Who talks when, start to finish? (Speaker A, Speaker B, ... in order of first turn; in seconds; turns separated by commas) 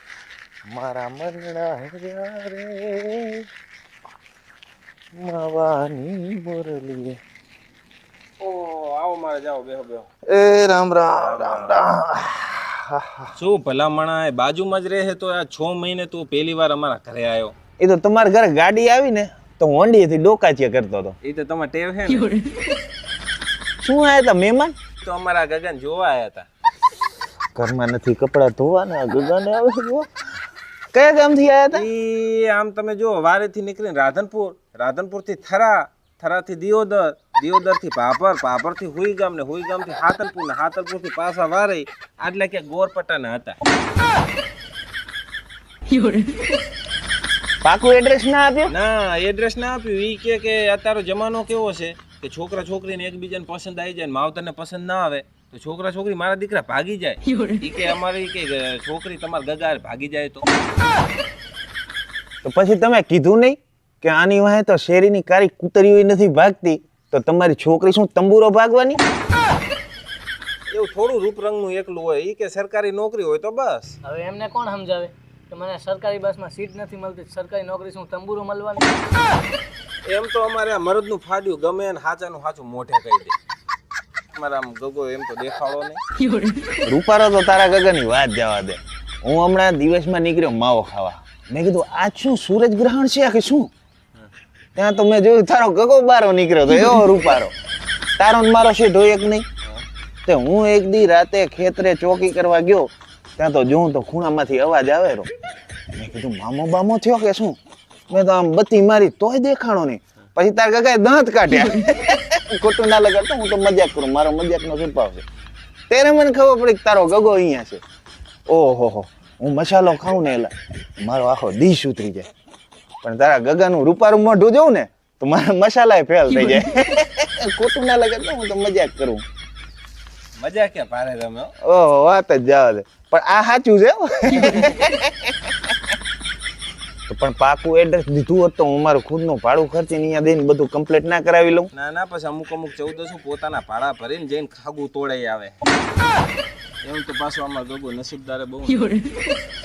Speaker A: 0.7-3.5, Speaker A: 5.1-7.2, Speaker B: 8.4-10.1, Speaker A: 10.3-13.3, Speaker B: 11.4-11.6, Speaker B: 13.4-17.5, Speaker A: 17.8-21.2, Speaker B: 21.2-22.4, Speaker A: 23.8-24.8, Speaker B: 25.0-26.5, Speaker A: 27.6-30.1, Speaker A: 30.9-31.9, Speaker B: 31.7-43.6, Speaker A: 47.6-48.7, Speaker B: 48.7-60.5, Speaker A: 62.4-69.0, Speaker B: 70.7-74.0, Speaker C: 74.0-79.2, Speaker B: 80.1-83.4, Speaker B: 84.3-86.0, Speaker A: 86.8-93.7, Speaker A: 94.8-97.5, Speaker A: 98.2-99.5, Speaker A: 100.3-105.3, Speaker A: 106.0-107.6, Speaker A: 108.1-115.2, Speaker A: 115.9-117.8, Speaker A: 118.5-122.3, Speaker A: 123.0-129.2, Speaker B: 130.4-131.5, Speaker A: 131.6-135.7, Speaker A: 137.1-141.7, Speaker B: 141.7-145.6, Speaker B: 146.8-148.9